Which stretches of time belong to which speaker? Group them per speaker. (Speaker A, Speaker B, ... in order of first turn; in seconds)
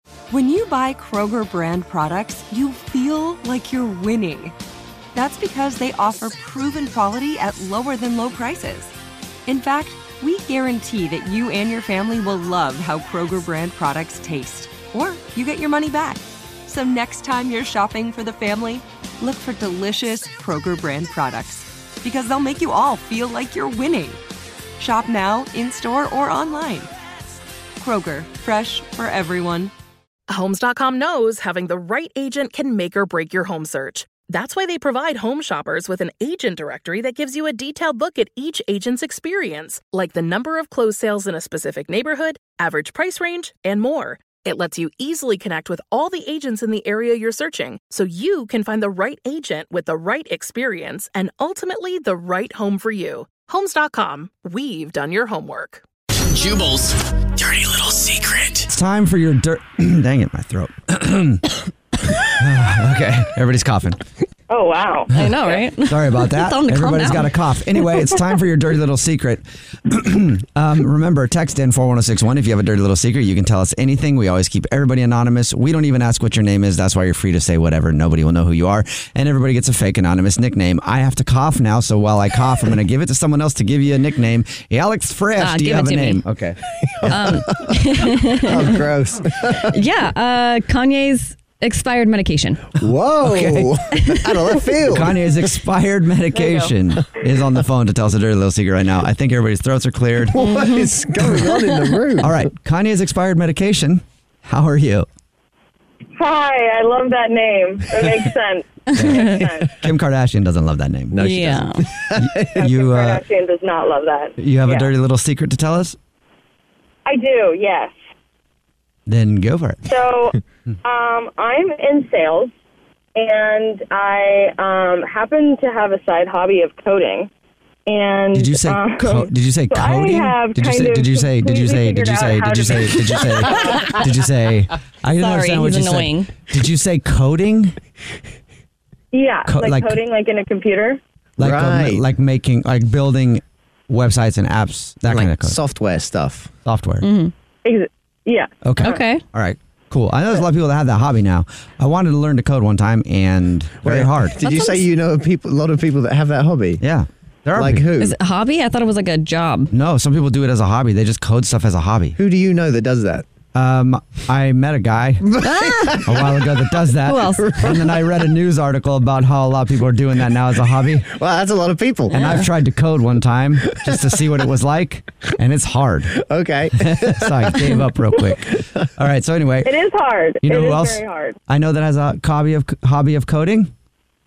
Speaker A: 0.3-4.6, 5.1-8.9, 9.5-24.2, 24.8-26.9, 27.8-29.7
Speaker B: 30.3-55.8
Speaker C: 56.2-58.7
Speaker D: 58.7-61.5, 62.2-64.0, 65.2-87.2, 93.2-93.7, 94.9-100.4, 102.2-105.1, 109.7-111.2, 112.1-113.2, 114.4-116.0, 119.1-119.9, 128.3-137.8, 139.4-140.0, 141.4-145.6, 146.6-147.1, 148.6-154.5, 156.8-157.9, 159.7-162.2, 163.5-165.3, 166.0-171.1, 172.1-176.1, 176.7-179.7, 180.4-183.7
Speaker E: 64.5-65.1, 106.2-109.6, 112.6-114.9, 117.1-117.9, 119.9-120.3, 120.8-122.5, 123.2-127.3, 127.9-133.9, 139.1-141.0, 147.6-148.9, 179.8-181.3
Speaker F: 65.1-67.3, 85.4-86.2, 87.0-88.9, 89.7-92.7, 94.0-94.6, 100.4-102.0, 109.0-109.5, 111.2-111.8, 135.2-136.3, 147.0-147.3, 148.8-149.2, 154.4-154.9, 158.0-159.7, 165.4-166.0, 167.0-167.5
Speaker G: 86.9-89.8, 92.8-95.2, 100.3-102.4, 111.1-112.6, 141.4-142.1, 145.1-146.5, 153.8-156.8, 157.6-158.2, 162.2-163.3, 165.2-168.1, 171.0-172.4, 173.7-174.2, 176.1-177.6